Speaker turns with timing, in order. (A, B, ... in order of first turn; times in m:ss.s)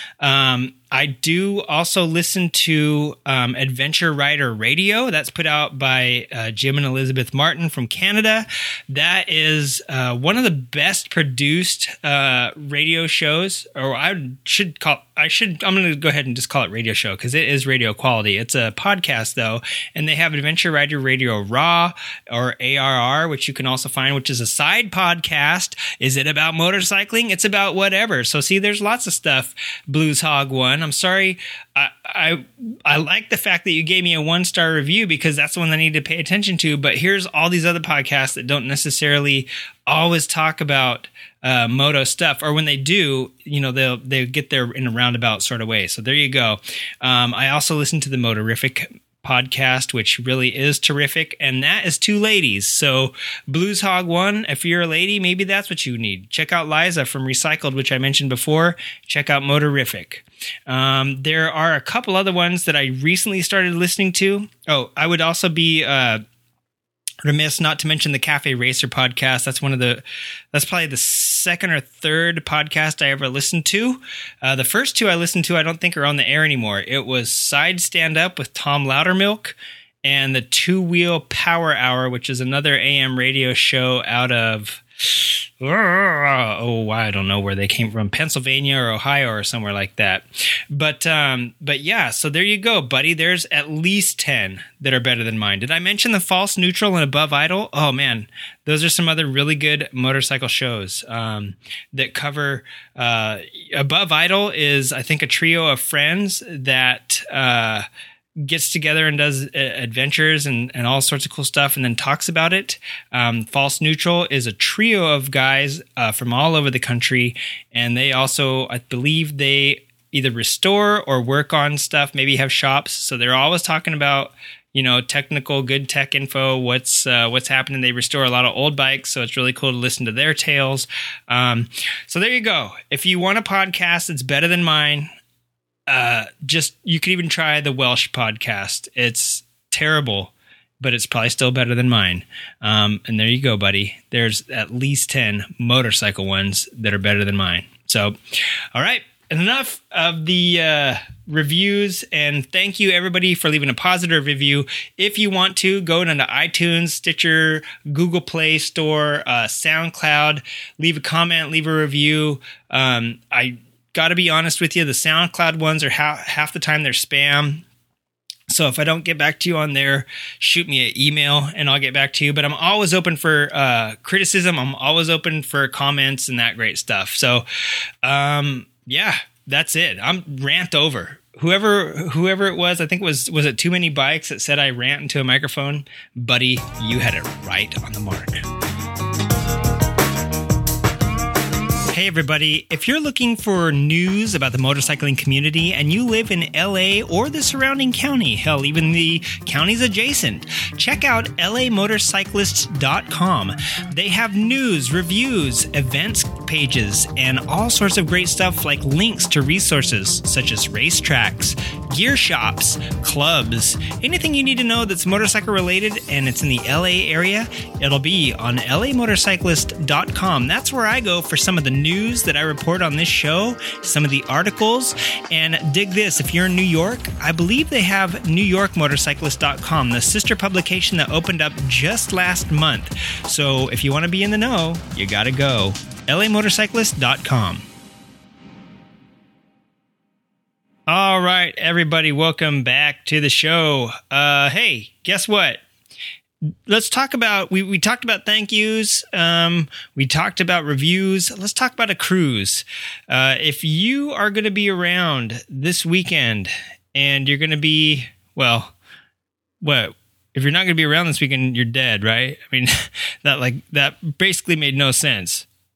0:00.2-1:06.2 A
1:07.2-1:47.9 A
1:48.4-2:15.1 A
2:15.9-2:28.2 A
2:28.7-2:47.6 A
2:48.5-2:57.4 A
2:58.0-3:08.4 A
3:11.9-3:57.6 A
4:00.9-4:05.6 A
4:06.4-4:18.7 A
4:19.6-4:22.7 A
4:23.2-4:25.5 A